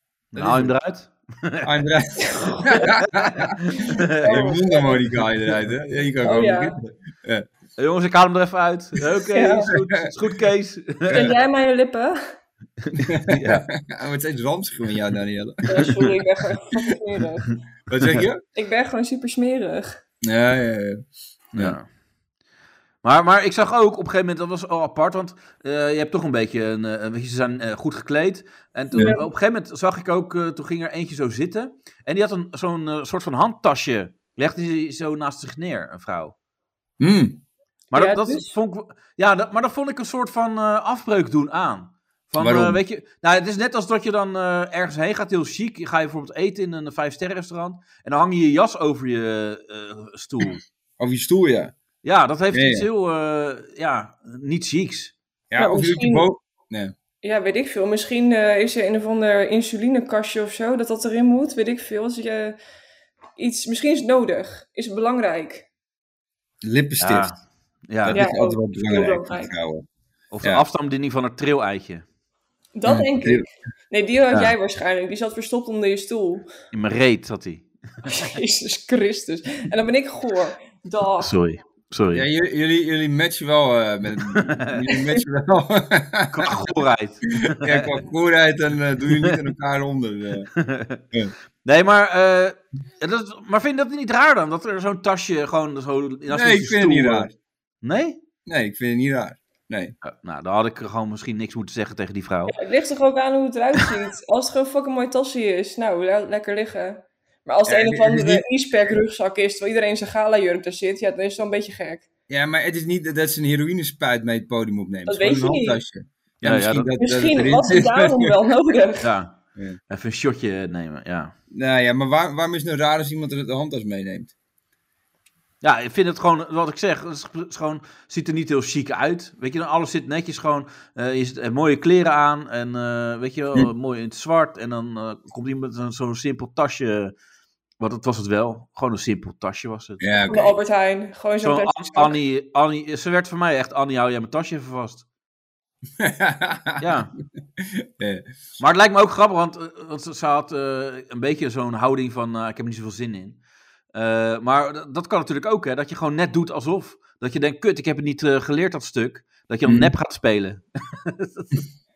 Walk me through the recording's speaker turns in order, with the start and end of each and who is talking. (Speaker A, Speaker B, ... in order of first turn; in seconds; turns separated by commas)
Speaker A: 0.3-1.6, Speaker B: 0.3-0.7, Speaker B: 1.6-3.5, Speaker A: 2.7-4.4, Speaker C: 4.2-5.0, Speaker B: 4.2-7.4, Speaker C: 6.2-6.7, Speaker A: 7.8-11.2, Speaker C: 9.3-9.7, Speaker B: 11.1-11.3, Speaker C: 11.1-12.2, Speaker A: 12.8-13.7, Speaker B: 13.1-15.6, Speaker C: 15.7-17.5, Speaker B: 17.9-18.4, Speaker C: 18.6-20.0, Speaker B: 20.2-21.0, Speaker A: 21.5-21.9, Speaker A: 23.0-36.3, Speaker B: 28.9-29.2, Speaker C: 29.0-29.2, Speaker B: 37.0-37.4, Speaker A: 37.9-50.6, Speaker C: 37.9-38.5, Speaker B: 42.4-42.8, Speaker B: 51.0-51.7, Speaker A: 52.0-55.1, Speaker B: 52.5-52.9, Speaker B: 55.5-56.9, Speaker C: 55.6-56.3, Speaker C: 57.2-62.6, Speaker C: 63.4-65.7, Speaker B: 66.6-67.3, Speaker A: 67.0-68.2, Speaker B: 68.0-69.8, Speaker C: 68.1-69.5, Speaker A: 70.3-72.0, Speaker C: 72.7-76.5, Speaker B: 72.9-73.4, Speaker A: 76.7-78.0, Speaker C: 78.0-81.3, Speaker A: 81.2-82.2, Speaker B: 82.1-86.5, Speaker A: 86.3-87.9, Speaker B: 87.4-90.5, Speaker A: 90.5-91.0, Speaker A: 91.6-97.3, Speaker B: 96.3-97.3, Speaker A: 97.8-98.2, Speaker B: 98.5-99.9, Speaker A: 100.0-102.5, Speaker C: 102.5-112.0, Speaker B: 107.7-108.5, Speaker B: 112.3-118.3, Speaker C: 115.1-115.8, Speaker A: 116.4-116.9, Speaker C: 117.0-119.1, Speaker A: 119.0-119.4, Speaker A: 119.9-121.3, Speaker B: 121.5-124.3, Speaker A: 125.6-137.1, Speaker A: 137.8-140.3, Speaker B: 140.0-140.5, Speaker C: 140.3-142.2, Speaker A: 141.4-145.0, Speaker B: 146.0-146.9, Speaker A: 146.8-147.1, Speaker B: 148.0-148.2, Speaker A: 148.6-153.4, Speaker A: 153.9-161.7, Speaker B: 159.7-159.9